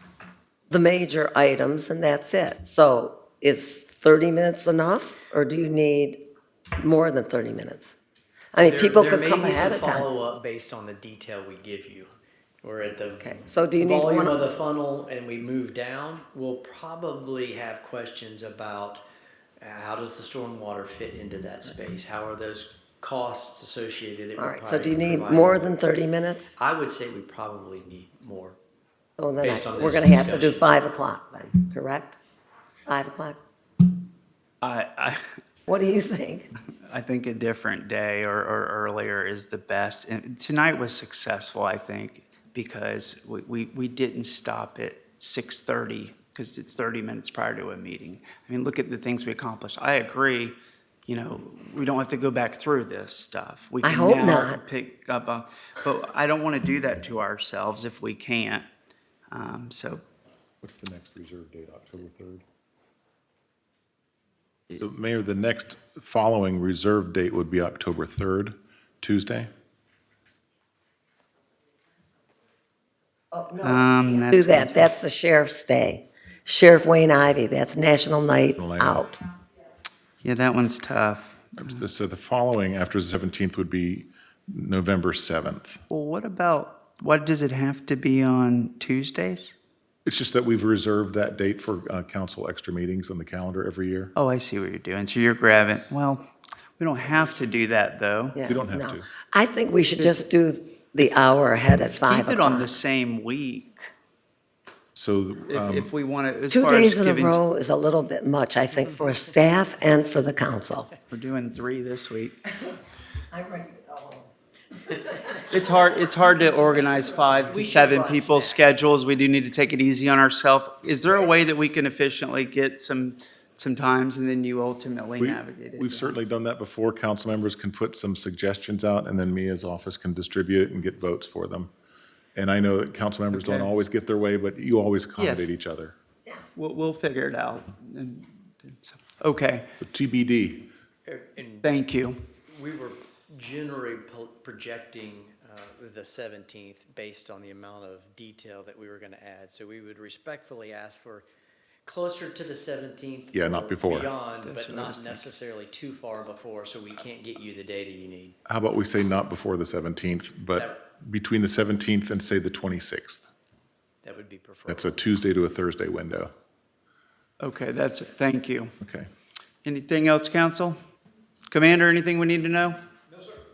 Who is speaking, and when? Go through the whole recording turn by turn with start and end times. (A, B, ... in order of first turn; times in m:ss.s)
0:00.7-0:06.2 A
0:06.8-0:08.0 A
0:08.5-0:10.1 A
0:08.6-0:12.1 B
0:12.6-0:19.0 B
0:13.2-0:14.4 A
0:19.6-0:25.8 B
0:24.4-0:26.6 A
0:26.6-0:28.6 B
0:29.2-0:32.2 A
0:29.4-0:30.7 B
0:32.9-0:33.4 A
0:34.6-0:35.2 C
0:35.7-0:36.5 A
0:36.8-0:50.6 C
0:51.1-0:58.7 C
0:53.8-0:54.6 A
0:59.3-1:00.0 C
1:00.6-1:02.4 D
1:04.7-1:09.5 D
1:13.3-1:19.2 A
1:13.6-1:14.9 C
1:18.6-1:19.0 D
1:20.2-1:21.6 C
1:21.6-1:25.8 D
1:25.9-1:29.5 C
1:30.0-1:34.1 D
1:34.1-1:36.3 C
1:36.8-1:38.4 C
1:38.4-1:42.7 A
1:38.4-1:39.1 D
1:41.9-1:43.9 C
1:44.9-1:45.9 D
1:45.5-1:47.4 C
1:46.5-1:50.9 A
1:51.1-1:52.4 C
1:53.3-1:54.3 A
1:54.8-1:55.6 A
1:55.5-2:06.1 C
1:56.3-1:58.6 A
1:57.7-1:58.4 B
2:05.2-2:11.7 D
2:12.4-2:16.0 D
2:13.3-2:13.7 C
2:15.2-2:15.5 C
2:16.6-2:19.7 C
2:19.8-2:20.7 D
2:21.0-2:21.7 B
2:21.6-2:22.2 C
2:22.5-2:31.2 B
2:31.8-2:38.4 B
2:33.3-2:34.1 D
2:34.4-2:35.2 C
2:38.5-2:43.3 D
2:44.0-2:44.9 B
2:44.7-2:46.3 D
2:47.4-2:48.8 C
2:48.8-2:49.1 D
2:49.6-2:50.8 C
2:51.5-2:52.8 C